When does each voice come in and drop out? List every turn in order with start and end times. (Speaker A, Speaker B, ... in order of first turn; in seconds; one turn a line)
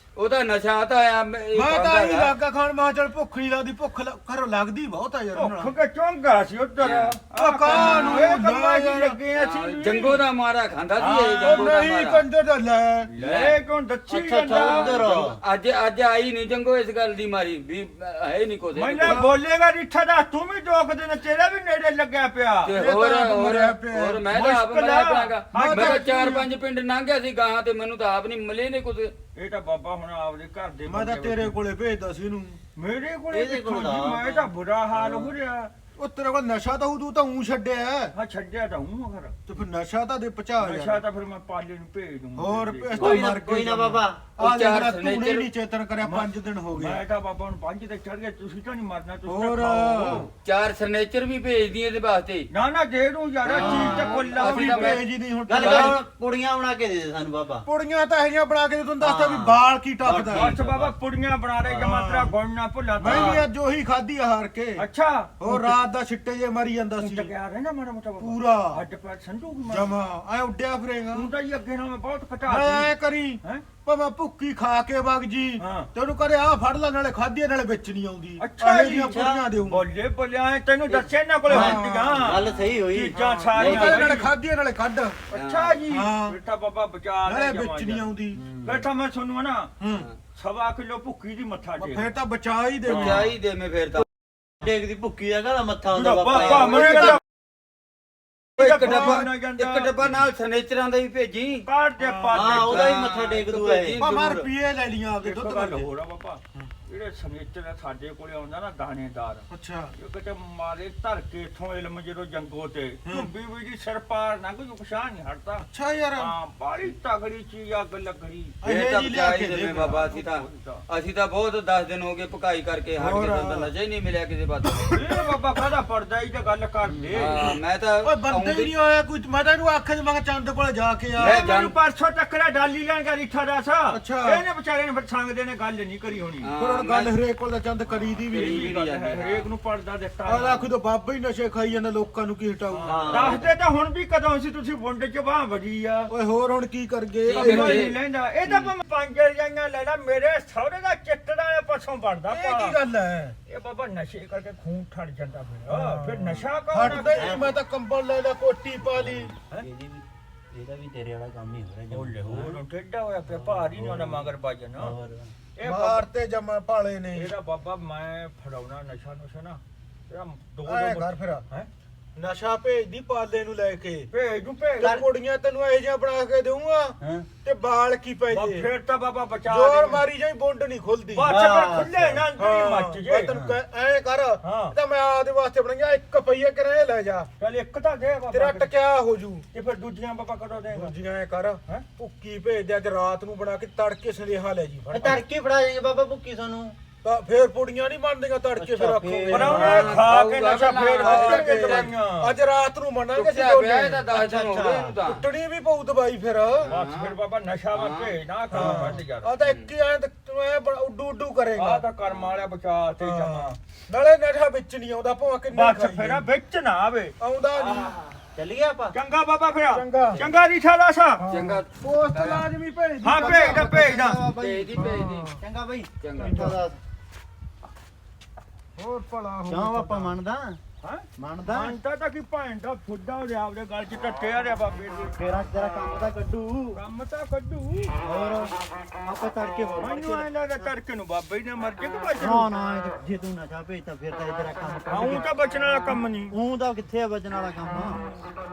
Speaker A: 0.1-2.3
Speaker B: 1.5-5.7
Speaker C: 5.3-10.2
Speaker A: 6.8-7.1
Speaker B: 7.3-9.2
Speaker A: 7.7-8.3
Speaker D: 7.7-8.2
Speaker A: 9.3-12.2
Speaker C: 11.0-11.8
Speaker B: 11.4-13.1
Speaker C: 13.1-15.3
Speaker A: 13.2-13.6
Speaker D: 14.1-15.4
Speaker A: 14.5-19.2
Speaker C: 18.7-22.7
Speaker B: 19.0-19.3
Speaker A: 22.6-29.1
Speaker B: 22.7-24.2
Speaker C: 24.3-26.4
Speaker B: 25.5-26.4
Speaker C: 29.4-31.6
Speaker B: 30.9-32.6
Speaker C: 32.8-35.7
Speaker D: 33.3-35.3
Speaker B: 36.0-38.1
Speaker C: 38.1-39.4
Speaker B: 39.5-41.0
Speaker C: 40.6-43.3
Speaker B: 42.4-47.0
Speaker D: 43.0-44.3
Speaker A: 44.4-45.5
Speaker C: 46.0-50.3
Speaker B: 49.3-50.3
Speaker A: 50.4-52.5
Speaker C: 52.5-55.0
Speaker A: 53.4-55.0
Speaker D: 53.5-54.1
Speaker B: 53.8-56.0
Speaker D: 55.5-57.7
Speaker B: 57.6-60.5
Speaker D: 59.0-60.9
Speaker C: 60.3-63.5
Speaker B: 61.7-62.3
Speaker B: 63.0-64.8
Speaker D: 63.0-63.4
Speaker C: 64.8-65.8
Speaker B: 65.4-67.3
Speaker C: 67.0-69.9
Speaker B: 68.2-68.8
Speaker B: 69.7-71.3
Speaker C: 71.1-73.6
Speaker B: 72.5-79.8
Speaker C: 75.6-75.9
Speaker C: 78.4-84.3
Speaker D: 79.0-79.5
Speaker B: 81.5-82.5
Speaker D: 81.5-84.1
Speaker B: 83.1-85.2
Speaker C: 85.3-88.1
Speaker A: 85.3-85.8
Speaker B: 85.9-86.4
Speaker B: 87.2-88.4
Speaker D: 88.3-88.8
Speaker C: 88.6-89.7
Speaker B: 89.8-90.1
Speaker C: 90.3-92.1
Speaker B: 91.8-93.3
Speaker A: 92.8-94.0
Speaker C: 92.9-93.3
Speaker D: 94.6-97.2
Speaker C: 95.9-97.2
Speaker B: 96.3-97.2
Speaker C: 98.6-99.9
Speaker A: 98.6-101.7
Speaker B: 98.8-99.3
Speaker C: 101.7-103.0
Speaker B: 102.0-102.6
Speaker D: 102.3-104.0
Speaker A: 102.7-104.5
Speaker B: 104.0-105.9
Speaker C: 105.2-118.5
Speaker B: 109.5-109.9
Speaker B: 115.6-116.3
Speaker B: 118.6-120.0
Speaker A: 118.6-124.9
Speaker C: 119.8-120.8
Speaker B: 123.0-123.7
Speaker C: 124.9-127.4
Speaker A: 127.1-128.7
Speaker B: 127.4-131.4
Speaker A: 131.2-131.7
Speaker C: 131.2-136.5
Speaker B: 133.9-134.4
Speaker A: 136.4-137.1
Speaker B: 136.6-138.6
Speaker A: 137.9-139.5
Speaker C: 138.3-140.7
Speaker B: 140.2-143.4
Speaker C: 142.7-146.1
Speaker D: 142.8-143.5
Speaker B: 146.1-147.9
Speaker A: 147.2-148.7
Speaker C: 147.3-152.8
Speaker B: 152.3-153.3
Speaker C: 153.5-157.4
Speaker B: 155.7-159.3
Speaker D: 156.8-157.6
Speaker D: 158.8-162.6
Speaker C: 161.9-164.9
Speaker D: 163.3-165.3
Speaker C: 165.6-166.1
Speaker B: 165.6-167.3
Speaker C: 167.1-171.7
Speaker B: 170.7-171.4
Speaker B: 172.1-174.1
Speaker C: 174.1-175.0
Speaker B: 174.8-178.7
Speaker D: 174.8-175.0
Speaker D: 177.0-177.3
Speaker C: 178.3-180.0
Speaker B: 179.5-181.3
Speaker C: 181.1-183.3
Speaker D: 181.2-182.2
Speaker B: 182.3-187.3
Speaker D: 183.3-183.6
Speaker C: 184.4-184.7
Speaker C: 187.4-188.7
Speaker B: 188.3-189.4
Speaker C: 189.5-190.9
Speaker B: 190.7-195.2
Speaker D: 194.9-196.8
Speaker B: 197.0-199.9
Speaker D: 198.6-199.9
Speaker C: 199.3-202.3
Speaker A: 199.5-201.9
Speaker B: 201.0-206.7
Speaker A: 203.1-205.2
Speaker D: 204.1-204.9
Speaker A: 206.6-207.1
Speaker C: 206.7-209.3
Speaker A: 207.7-208.7
Speaker B: 208.5-211.8
Speaker A: 209.4-209.7
Speaker C: 211.5-213.6
Speaker B: 213.0-216.2
Speaker C: 215.5-217.1
Speaker B: 217.2-218.0
Speaker D: 217.5-218.9
Speaker C: 218.9-221.2
Speaker B: 219.7-220.2
Speaker B: 221.2-224.0
Speaker A: 221.3-222.5
Speaker C: 223.0-224.2
Speaker D: 223.1-226.8
Speaker A: 224.4-225.4
Speaker B: 224.8-225.4
Speaker A: 226.0-226.6
Speaker B: 226.2-226.6
Speaker B: 228.8-230.1
Speaker D: 229.5-230.6
Speaker C: 230.8-235.2
Speaker D: 231.2-231.7
Speaker D: 235.2-236.8
Speaker C: 236.7-237.9
Speaker D: 238.0-240.7
Speaker C: 239.8-242.5
Speaker D: 242.2-245.3
Speaker C: 244.9-246.3
Speaker D: 246.3-248.0